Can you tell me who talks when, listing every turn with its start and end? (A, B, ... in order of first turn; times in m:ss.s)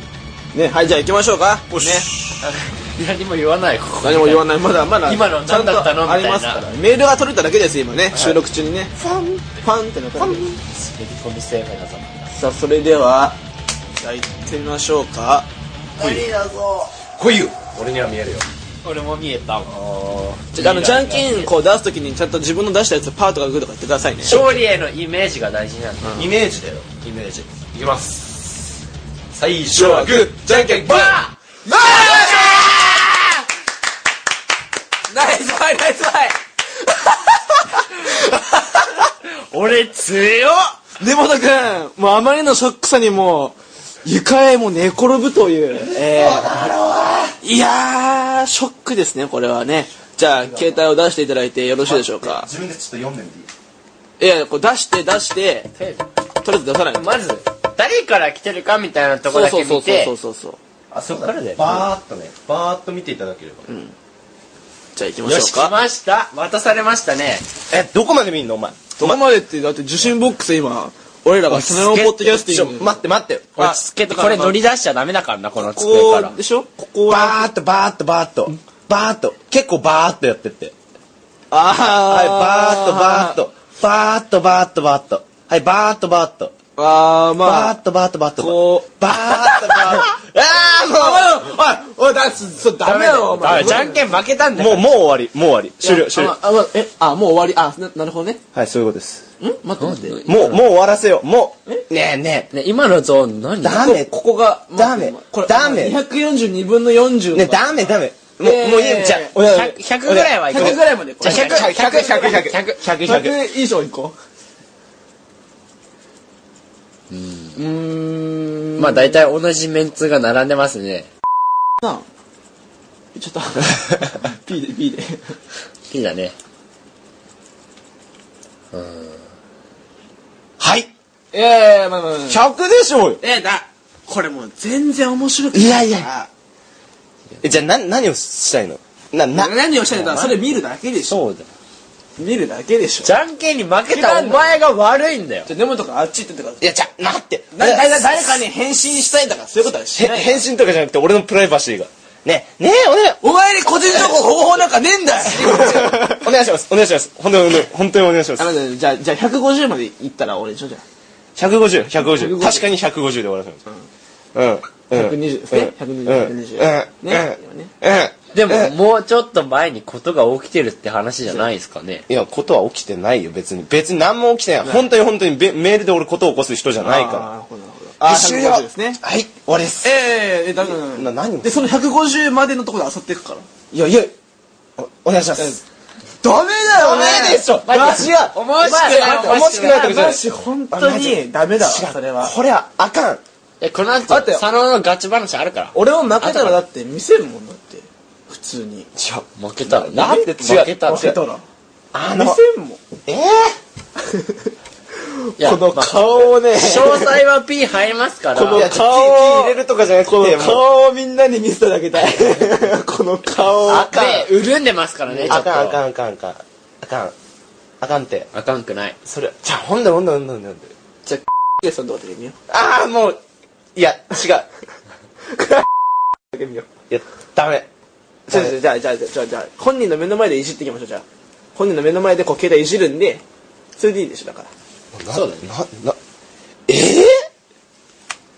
0:00.5-0:02.1 A
0:01.7-0:02.5 B
0:02.4-0:06.7 C
0:04.0-0:08.9 A
0:08.1-0:08.4 B
0:09.0-0:09.6 B
0:09.6-0:10.6 A
0:10.2-0:10.6 B
0:10.7-0:12.3 C
0:12.3-0:13.4 A
0:14.0-0:15.5 A
0:16.0-0:16.3 B
0:16.0-0:16.9 C
0:17.0-0:18.4 B
0:18.8-0:19.7 C
0:19.6-0:20.5 B
0:20.5-0:21.5 C
0:20.5-0:24.4 A
0:24.2-0:26.2 C
0:26.0-0:26.3 A
0:26.1-0:28.7 B
0:29.3-0:31.2 B
0:29.7-0:33.0 A
0:30.8-0:31.3 C
0:31.7-0:32.8 B
0:31.9-0:32.5 C
0:35.1-0:38.5 A
0:39.5-0:40.7 C
0:41.0-0:46.6 A
0:45.8-0:47.4 B
0:47.4-0:52.5 A
0:50.5-0:50.7 B
0:51.8-0:53.5 B
0:54.2-0:55.7 A
0:55.8-0:56.1 C
0:56.4-0:57.2 A
0:56.9-1:00.1 C
0:59.3-1:00.6 A
1:00.9-1:03.6 B
1:01.1-1:01.9 C
1:03.7-1:03.9 A
1:05.0-1:05.7 A
1:05.2-1:07.4 C
1:07.7-1:09.2 B
1:09.0-1:13.0 A
1:11.5-1:12.3 C
1:12.4-1:14.6 B
1:13.6-1:16.4 C
1:15.6-1:17.5 A
1:17.1-1:20.7 B
1:21.5-1:23.4 A
1:21.9-1:26.6 B
1:26.8-1:27.7 A
1:27.4-1:31.5 B
1:28.4-1:30.1 A
1:30.9-1:34.1 A
1:32.8-1:34.9 C
1:33.5-1:33.8 B
1:34.5-1:36.4 B
1:35.8-1:38.4 A
1:38.5-1:39.3 B
1:39.4-1:40.4 A
1:39.8-1:40.6 C
1:40.2-1:42.5 B
1:42.5-1:44.0 C
1:43.6-1:44.1 B
1:43.8-1:47.8 A
1:44.7-1:46.0 B
1:47.3-1:49.4 B
1:48.4-1:52.5 A
1:49.4-1:52.8 C
1:50.0-1:53.4 B
1:53.0-1:54.2 A
1:57.1-1:57.6 C
1:57.6-1:59.2 A
1:58.8-2:01.1 C
2:03.1-2:05.4 A
2:05.9-2:06.3 C
2:08.7-2:09.2 C
2:10.6-2:10.9 B
2:11.3-2:12.4 A
2:12.3-2:13.2 B
2:13.2-2:16.3 A
2:15.5-2:16.1 B
2:17.4-2:20.4 B
2:19.3-2:21.2 A
2:21.0-2:21.5 C
2:22.2-2:23.1 A
2:23.0-2:25.5 C
2:23.9-2:24.6 A
2:25.5-2:26.7 A
2:26.6-2:28.4 B
2:27.5-2:30.4 A
2:29.9-2:33.2 B
2:33.2-2:36.3 A
2:35.2-2:38.5 B
2:38.4-2:40.8 A
2:41.4-2:43.6 B
2:42.0-2:42.7 A
2:44.3-2:48.7 B
2:44.9-2:47.7 A
2:48.3-2:52.0 C
2:52.1-2:57.3 B
2:56.8-2:59.0 A
2:58.0-2:59.9 B
2:59.8-3:03.5 A
3:00.8-3:01.7 B
3:03.7-3:04.1 B
3:04.8-3:05.6 B
3:06.2-3:12.3 A
3:06.6-3:13.2 B
3:07.6-3:10.1 C
3:13.6-3:16.6 C
3:14.1-3:14.4 A
3:15.7-3:18.9 A
3:19.0-3:21.2 B
3:19.4-3:21.2 C
3:20.0-3:21.4 A
3:21.9-3:22.4 B
3:22.2-3:22.8 A
3:23.0-3:23.6 B
3:24.0-3:27.2 A
3:25.4-3:28.7 C
3:28.3-3:33.9 A
3:28.5-3:30.6 B
3:33.6-3:34.3 B
3:33.8-3:35.8 C
3:35.3-3:37.1 B
3:37.8-3:38.3 B
3:38.3-3:39.0 C
3:39.0-3:40.7 B
3:41.0-3:42.4 A
3:42.5-3:43.2 B
3:43.7-3:44.5 B
3:45.4-3:45.6 A
3:46.3-3:46.7 A
3:46.9-3:47.7 B
3:48.3-3:51.0 A
3:51.6-3:53.2 A
3:53.8-3:54.5 A
3:54.9-3:56.0 B
3:55.1-3:55.5 C
3:56.7-3:57.2 B